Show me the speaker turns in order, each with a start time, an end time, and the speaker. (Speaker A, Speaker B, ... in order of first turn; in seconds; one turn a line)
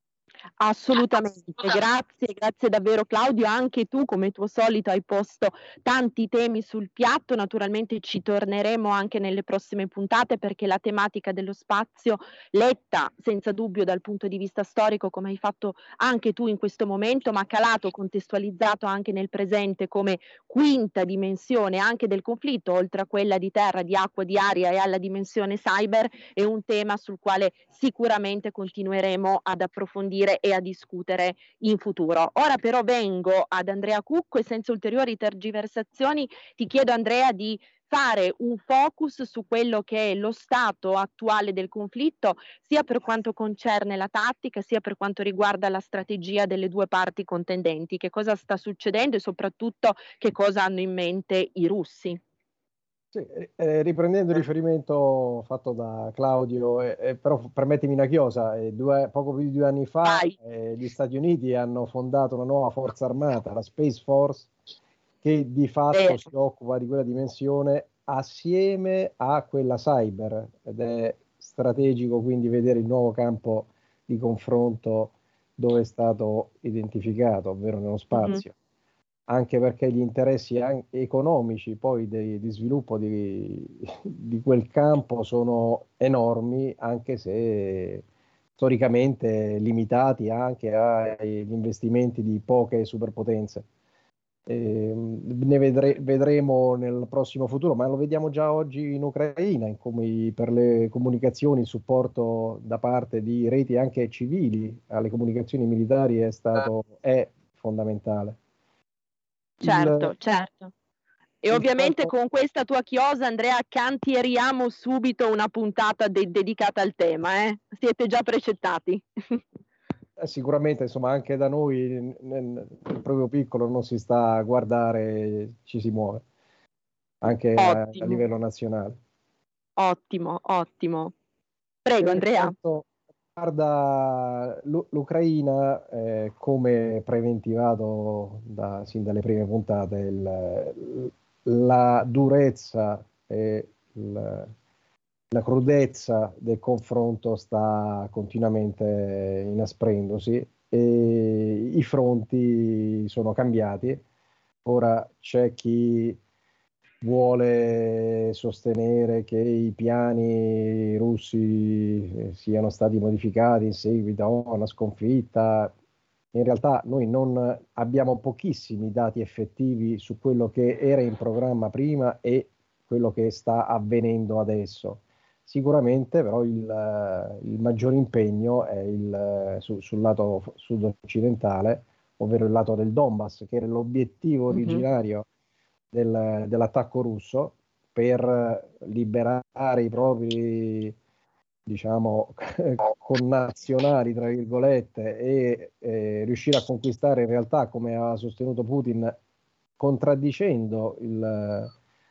Speaker A: 0.6-52.2
Speaker B: 53.1-64.5
Speaker A: 60.0-60.3
Speaker B: 65.2-78.5
Speaker A: 65.9-66.2
Speaker A: 78.1-78.4
Speaker B: 79.3-88.0
Speaker B: 88.6-93.7
Speaker B: 94.5-108.4
Speaker B: 109.6-110.1
Speaker A: 109.6-110.7
Speaker A: 111.4-119.4
Speaker B: 111.5-112.1
Speaker B: 120.2-126.2
Speaker B: 127.2-129.0
Speaker A: 127.6-128.2
Speaker A: 129.8-131.1
Speaker A: 131.8-132.5
Speaker B: 132.0-144.5
Speaker B: 145.3-154.0
Speaker B: 154.6-156.2
Speaker B: 157.0-165.7
Speaker B: 166.3-185.3
Speaker A: 184.5-184.8
Speaker B: 185.9-190.9
Speaker B: 191.7-199.2
Speaker B: 199.8-201.7